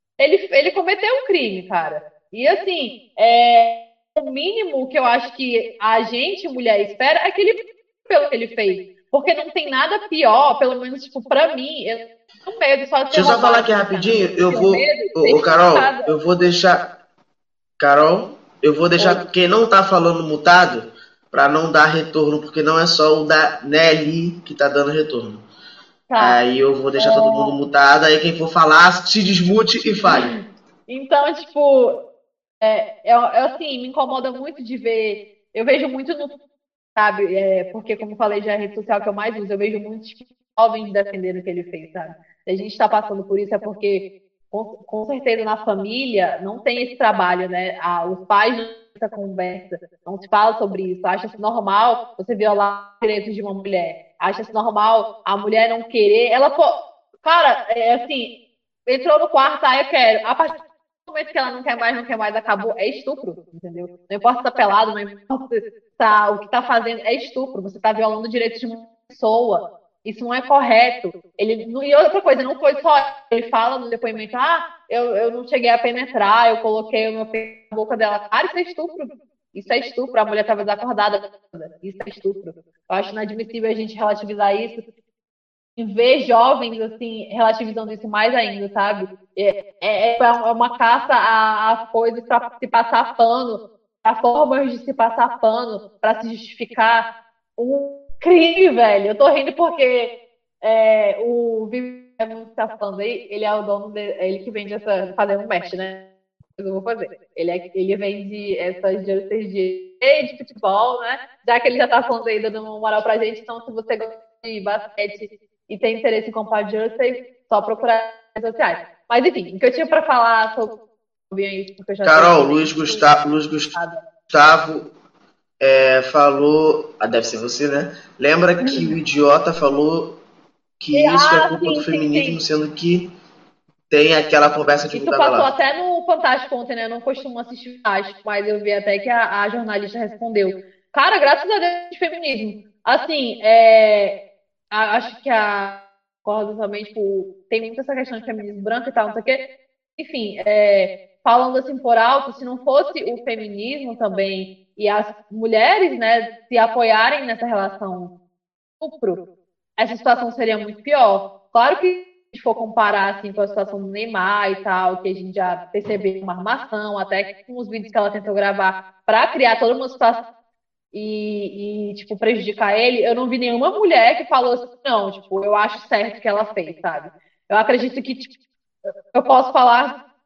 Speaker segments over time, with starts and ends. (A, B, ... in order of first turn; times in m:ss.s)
0:00.2-0:16.1 A
0:13.1-0:16.9 B
0:17.8-0:25.4 B
0:26.1-0:26.4 A
0:26.2-0:30.3 B
0:27.0-0:27.6 A
0:30.0-0:30.4 A
0:30.9-0:32.0 A
0:32.6-0:36.4 A
0:37.0-0:58.3 A
0:58.9-1:00.5 A
1:01.1-1:24.8 A
1:25.8-1:46.0 A
1:46.6-2:00.8 A
2:01.3-2:03.1 A
2:02.0-2:03.7 B
2:03.7-2:04.0 A
2:04.3-2:04.9 B
2:05.6-2:10.1 B
2:08.6-2:09.0 A
2:10.8-2:13.1 B
2:10.9-2:12.4 A
2:13.9-2:15.5 B
2:14.9-2:24.2 A
2:24.7-2:29.5 A
2:30.0-2:38.1 A
2:38.8-2:39.2 A
2:39.8-2:50.2 A
2:50.9-2:58.3 A
2:59.1-3:00.0 A